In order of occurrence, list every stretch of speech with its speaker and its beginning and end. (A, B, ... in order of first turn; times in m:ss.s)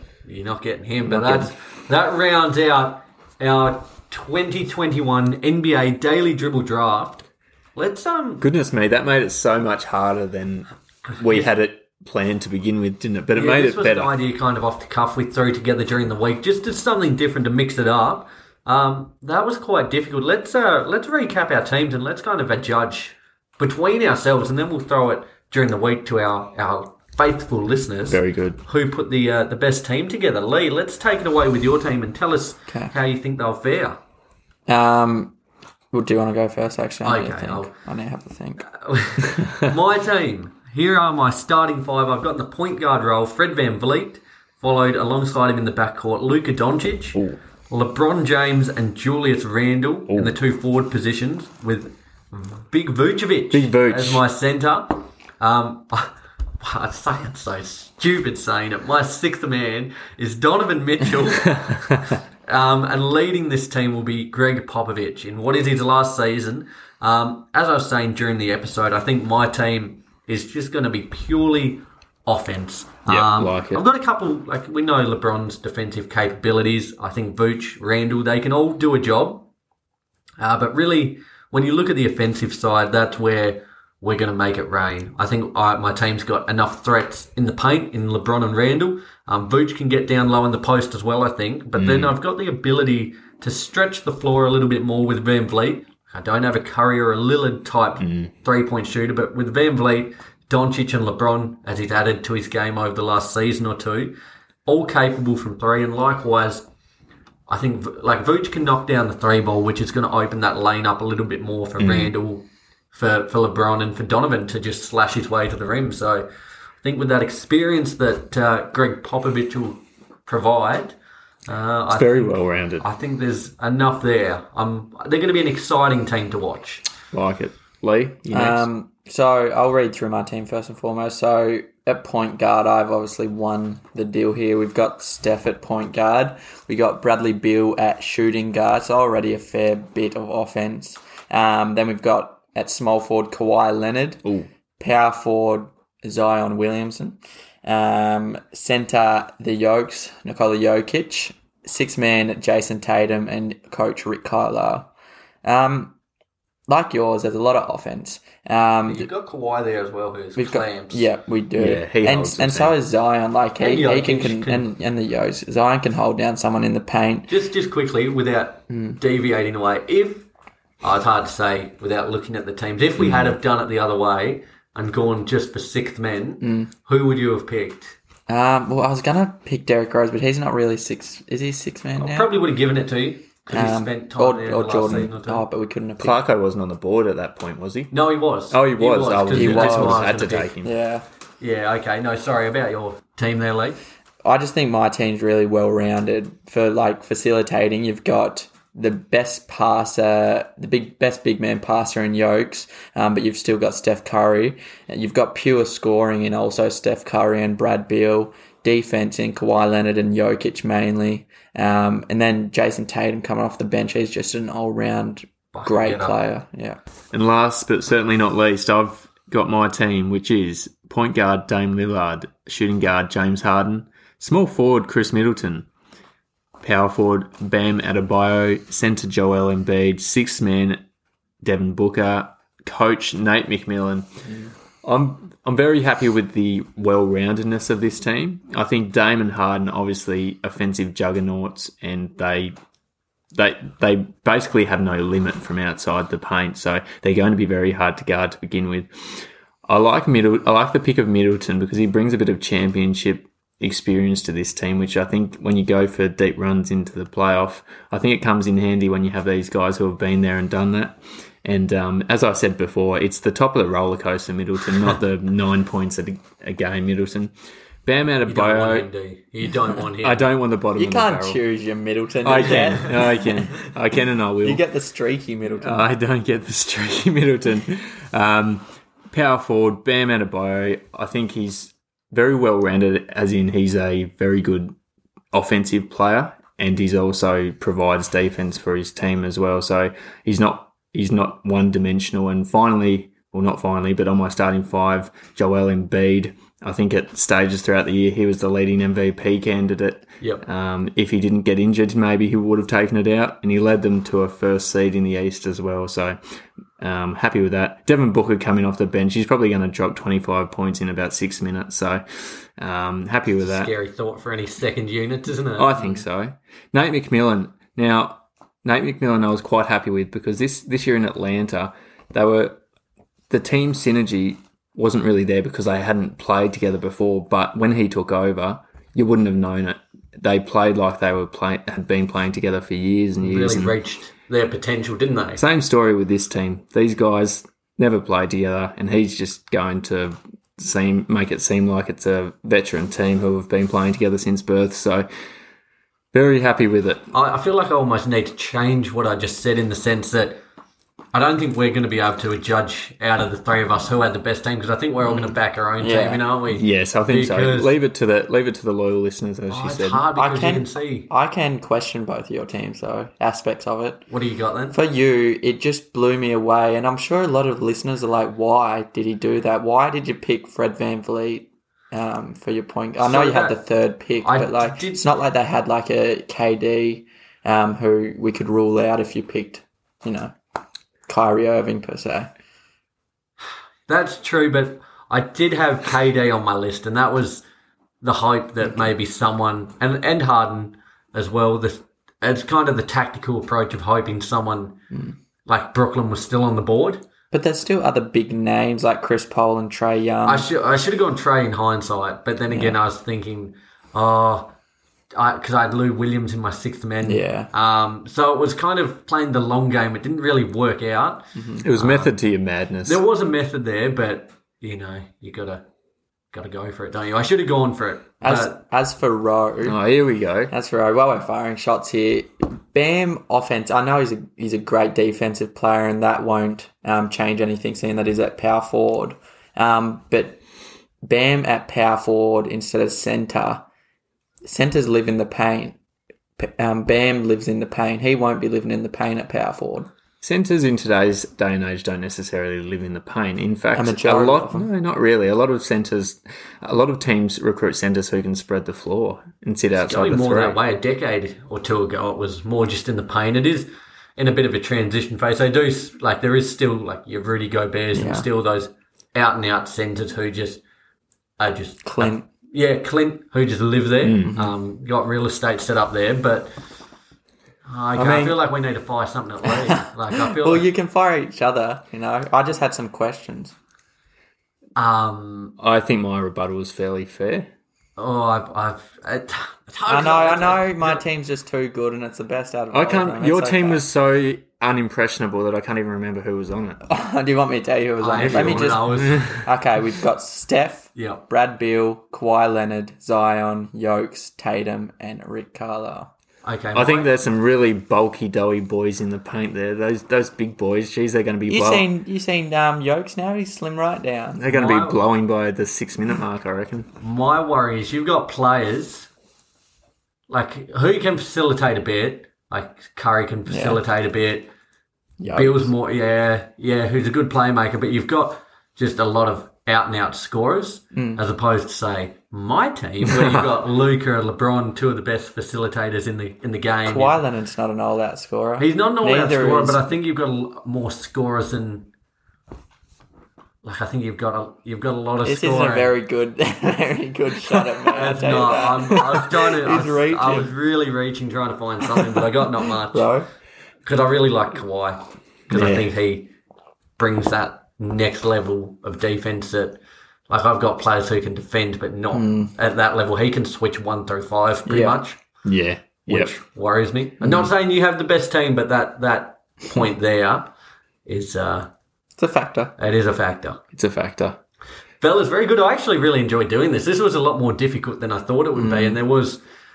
0:00.2-0:08.4 A
0:01.0-0:01.5 B
0:08.4-0:14.1 B
0:11.0-0:11.5 A
0:13.3-0:34.0 A
0:28.0-0:28.6 B
0:32.7-0:32.9 C
0:34.7-0:35.3 C
0:35.9-0:38.6 C
0:37.0-0:37.7 A
0:38.7-1:19.5 A
0:50.1-0:50.3 B
0:53.5-0:54.2 B
1:01.6-1:01.8 B
1:13.0-1:13.8 B
1:20.4-1:46.6 A
1:31.8-1:32.1 B
1:38.0-1:38.3 B
1:47.5-1:56.3 A
1:51.8-1:52.1 B
1:56.8-2:01.0 A
2:01.5-2:06.9 A
2:01.9-2:02.8 B
2:07.1-2:08.6 B
2:08.3-2:24.2 C
2:24.8-2:34.9 C
2:35.4-2:35.9 C
2:36.7-2:39.1 C
2:38.9-2:41.0 A
2:40.4-2:47.3 C
2:41.6-2:42.8 B
2:43.6-2:44.7 A
2:47.3-2:50.3 A
2:48.7-2:49.0 C
2:50.8-2:58.0 A
2:53.0-2:53.4 B
2:56.4-2:56.7 C
2:58.3-3:02.3 C
3:02.0-3:05.4 A
3:03.5-3:06.2 C
3:06.0-3:07.9 B
3:07.9-3:10.5 A
3:08.5-3:10.7 B
3:09.3-3:11.0 C
3:11.4-3:13.8 A
3:14.2-3:36.8 C
3:35.5-3:36.2 A
3:37.1-3:45.7 B
3:46.6-3:50.8 B
3:51.4-3:54.2 B
3:54.8-4:02.5 B
4:03.3-4:08.9 B
4:09.7-4:27.3 B
4:27.8-4:28.9 B
4:28.2-4:30.3 A
4:30.0-4:31.4 B
4:30.8-4:33.5 C
4:32.2-4:34.6 B
4:34.4-4:35.9 C
4:35.6-4:44.7 B
4:45.3-5:06.2 B
5:06.8-5:12.0 B
5:12.6-5:13.7 B
5:13.4-5:15.9 A
5:15.6-5:22.6 B
5:23.3-5:33.8 B
5:33.2-5:35.4 A
5:35.4-5:45.1 B
5:46.1-5:47.1 B
5:47.1-5:50.4 A
5:51.1-5:57.7 A
5:55.0-5:56.2 C
5:56.5-6:00.0 B
5:59.5-6:01.1 A
6:00.1-6:04.0 C
6:04.1-6:04.8 A
6:04.7-6:20.3 C
6:13.0-6:13.6 A
6:14.2-6:15.1 A
6:21.1-6:22.3 C
6:23.9-6:27.4 A
6:28.0-6:34.8 A
6:28.6-6:28.9 C
6:35.4-6:37.0 A
6:37.3-6:40.5 C
6:40.2-6:44.5 A
6:42.5-6:42.8 C
6:45.1-6:52.1 A
6:47.0-6:47.5 C
6:51.3-6:51.6 C
6:51.6-6:53.0 B
6:52.8-6:55.6 A
6:56.3-6:58.6 A
6:58.2-6:59.8 C
6:59.6-7:00.5 B
7:00.5-7:10.4 C
7:11.0-7:13.6 C
7:14.4-7:15.8 C
7:16.4-7:19.9 C
7:20.2-7:30.6 B
7:23.7-7:24.7 C
7:29.8-7:40.6 A
7:37.9-7:38.2 C
7:41.4-7:46.5 A
7:41.8-7:42.2 C
7:44.0-7:44.3 B
7:44.2-7:44.5 C
7:47.6-7:50.7 A
7:48.0-7:48.4 B
7:49.4-7:53.5 C
7:54.8-7:55.6 A
7:55.6-7:57.5 B
7:58.0-8:01.0 A
7:59.9-8:03.8 C
8:02.7-8:06.8 B
8:06.8-8:16.1 C
8:08.0-8:09.4 A
8:08.2-8:09.4 B
8:10.9-8:11.2 A
8:16.4-8:17.1 A
8:16.7-8:21.9 B
8:21.5-8:24.4 C
8:24.4-8:26.9 B
8:24.5-8:25.0 A
8:27.0-8:29.1 A
8:30.3-8:34.5 A
8:33.5-8:33.8 C
8:35.2-8:35.7 C
8:35.3-8:47.2 A
8:40.9-8:41.2 C
8:46.8-8:49.9 C
8:48.6-8:51.9 A
8:53.6-8:55.9 A
8:55.2-9:00.5 C
8:57.9-9:03.1 A
9:02.8-9:03.3 C
9:03.8-9:06.3 A
9:05.5-9:05.9 B
9:07.0-9:15.2 A
9:12.1-9:12.5 C
9:14.6-9:15.0 C
9:15.4-9:16.3 B
9:16.0-9:20.5 A
9:21.0-9:21.7 A
9:22.2-9:22.7 C
9:22.8-9:23.6 A
9:23.7-9:24.4 B
9:25.0-9:29.4 A
9:28.6-9:29.0 C